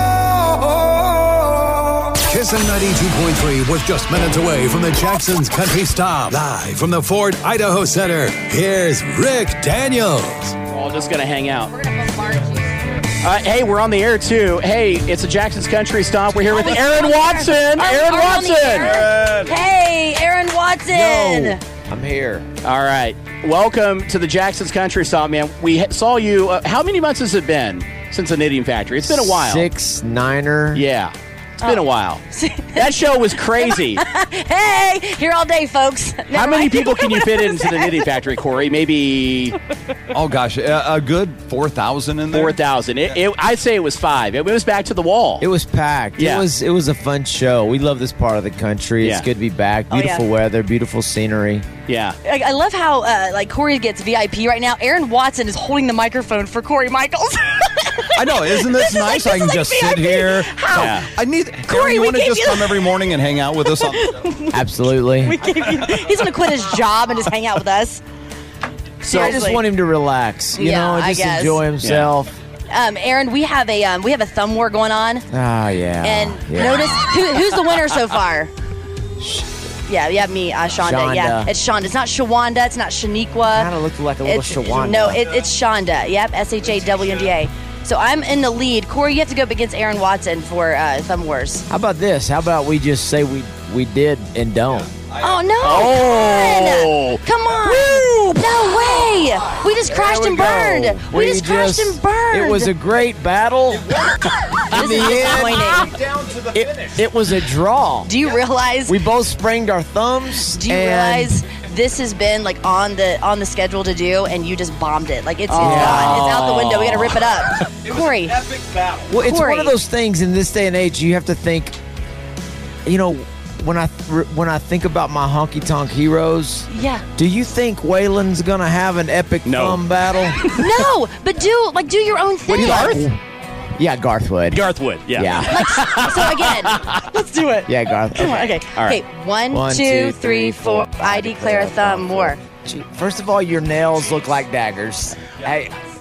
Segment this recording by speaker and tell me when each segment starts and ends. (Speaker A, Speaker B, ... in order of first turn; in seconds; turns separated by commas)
Speaker A: 2.2-10.6, Speaker B: 10.7-11.7, Speaker C: 11.7-12.8, Speaker B: 13.2-19.0, Speaker C: 16.4-21.6, Speaker D: 18.8-19.5, Speaker E: 20.9-22.5, Speaker B: 22.6-29.7, Speaker E: 29.0-30.8, Speaker B: 30.7-32.2, Speaker C: 31.6-32.9, Speaker B: 32.7-34.0, Speaker C: 33.6-38.0, Speaker B: 36.3-39.5, Speaker D: 40.1-42.6, Speaker B: 42.3-45.5, Speaker E: 45.4-51.7, Speaker B: 46.2-46.5, Speaker B: 49.0-49.3, Speaker C: 49.9-50.2, Speaker B: 51.9-52.2, Speaker C: 52.2-61.0, Speaker D: 58.1-64.2, Speaker B: 60.7-61.1, Speaker C: 61.6-63.0, Speaker C: 63.6-64.6, Speaker E: 64.5-65.4, Speaker C: 65.2-68.0, Speaker B: 69.0-69.4, Speaker C: 69.0-69.6, Speaker E: 69.1-72.3, Speaker C: 70.5-71.6, Speaker B: 71.8-72.1, Speaker C: 72.7-75.2, Speaker E: 75.3-77.1, Speaker C: 76.0-78.5, Speaker E: 79.2-79.5, Speaker C: 79.9-83.7, Speaker E: 80.8-81.5, Speaker E: 83.5-85.2, Speaker C: 84.2-91.7, Speaker D: 86.9-87.3, Speaker E: 91.7-94.9, Speaker D: 95.0-95.4, Speaker C: 95.2-102.7, Speaker B: 95.6-98.4, Speaker E: 99.8-104.1, Speaker D: 103.9-105.2, Speaker C: 104.7-105.9, Speaker E: 104.7-105.9, Speaker B: 104.8-105.8, Speaker D: 105.9-106.7, Speaker E: 106.5-108.1, Speaker C: 108.0-109.0, Speaker E: 108.8-111.4, Speaker C: 110.5-118.4, Speaker B: 115.5-117.2, Speaker E: 115.6-116.2, Speaker D: 117.8-119.1, Speaker E: 119.1-121.8, Speaker C: 119.2-119.7, Speaker E: 122.8-130.4, Speaker C: 126.7-127.0, Speaker B: 129.4-130.8, Speaker C: 130.5-133.1, Speaker E: 132.5-133.2, Speaker B: 132.6-133.0, Speaker E: 133.8-135.7, Speaker B: 134.5-137.0, Speaker C: 135.5-142.4, Speaker E: 137.6-138.6, Speaker B: 138.3-139.0, Speaker E: 139.5-145.7